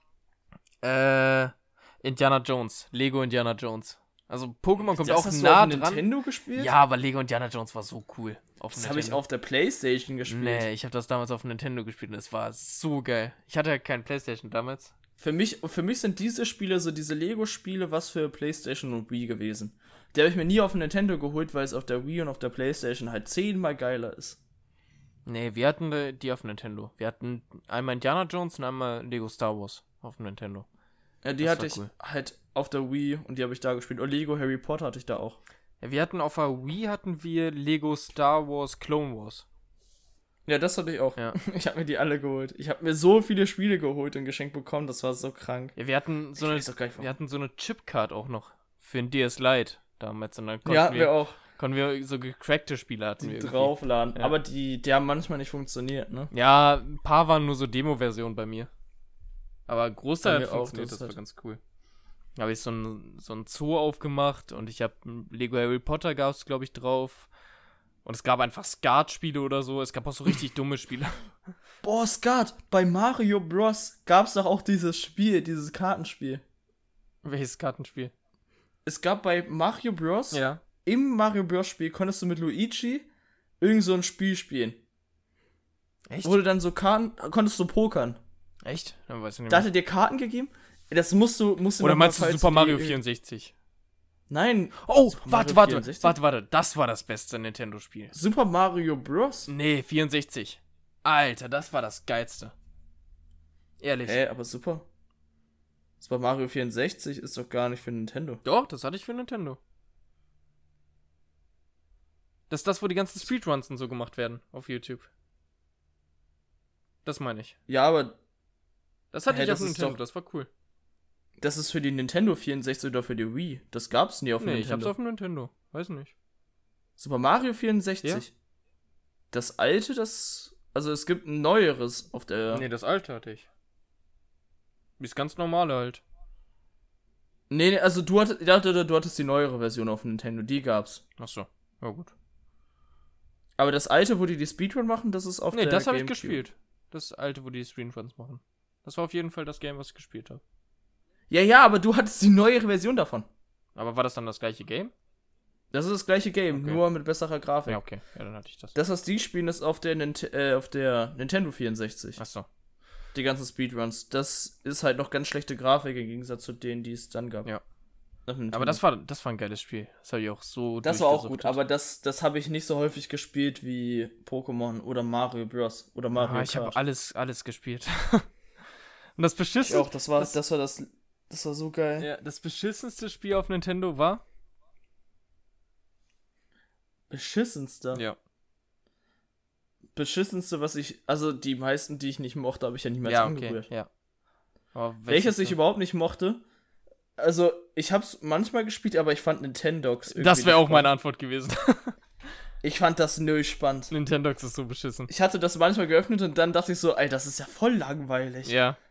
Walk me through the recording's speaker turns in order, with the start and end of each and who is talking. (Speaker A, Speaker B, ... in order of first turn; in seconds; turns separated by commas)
Speaker A: 0.8-9.2, Speaker B: 5.0-6.7, Speaker B: 8.7-10.7, Speaker A: 10.3-14.9, Speaker B: 15.2-24.4, Speaker A: 25.2-30.7, Speaker B: 31.2-35.4, Speaker A: 31.4-31.9, Speaker A: 35.8-39.5, Speaker B: 40.5-45.8, Speaker A: 45.8-54.3, Speaker B: 46.4-47.1, Speaker B: 50.6-51.4, Speaker B: 53.2-56.3, Speaker A: 56.3-58.7, Speaker A: 59.7-61.6, Speaker B: 60.2-61.1, Speaker A: 62.4-67.3, Speaker A: 68.0-71.2, Speaker B: 71.8-76.4, Speaker A: 77.2-78.1, Speaker B: 78.8-83.1, Speaker A: 80.3-80.6, Speaker B: 83.6-84.8, Speaker A: 86.1-86.4, Speaker B: 86.2-88.2, Speaker A: 88.6-89.7, Speaker B: 89.5-93.0, Speaker A: 91.8-93.5, Speaker B: 94.3-96.2, Speaker A: 94.8-98.1, Speaker B: 98.1-99.5, Speaker A: 99.5-102.5, Speaker A: 103.8-104.2, Speaker B: 104.0-104.8, Speaker B: 106.0-108.4, Speaker A: 108.4-109.6, Speaker A: 112.5-115.1, Speaker A: 117.0-117.5, Speaker B: 117.7-118.2, Speaker A: 119.1-120.5, Speaker B: 119.3-120.0, Speaker B: 121.4-124.9, Speaker A: 124.4-126.1, Speaker B: 127.0-128.3, Speaker B: 129.3-132.6, Speaker A: 132.5-133.5, Speaker A: 135.0-136.0, Speaker B: 137.5-141.0, Speaker A: 141.2-142.1, Speaker B: 143.6-146.4, Speaker A: 145.5-150.4, Speaker B: 151.3-153.3, Speaker A: 153.7-154.9, Speaker B: 155.7-157.8, Speaker A: 156.5-156.8, Speaker A: 157.7-158.7, Speaker B: 158.7-162.2, Speaker A: 162.2-162.5, Speaker B: 163.1-167.5, Speaker B: 168.3-168.8, Speaker A: 168.5-171.6, Speaker B: 170.8-176.8, Speaker A: 176.1-178.3, Speaker A: 179.2-180.3, Speaker B: 179.6-182.1, Speaker A: 182.0-184.2, Speaker B: 187.1-188.0, Speaker B: 189.9-193.7, Speaker A: 193.0-193.9, Speaker A: 194.7-195.6, Speaker B: 195.1-196.4, Speaker B: 197.2-200.9, Speaker A: 200.1-202.0, Speaker B: 202.6-203.9, Speaker A: 203.9-205.1, Speaker B: 205.1-208.5, Speaker A: 208.4-208.8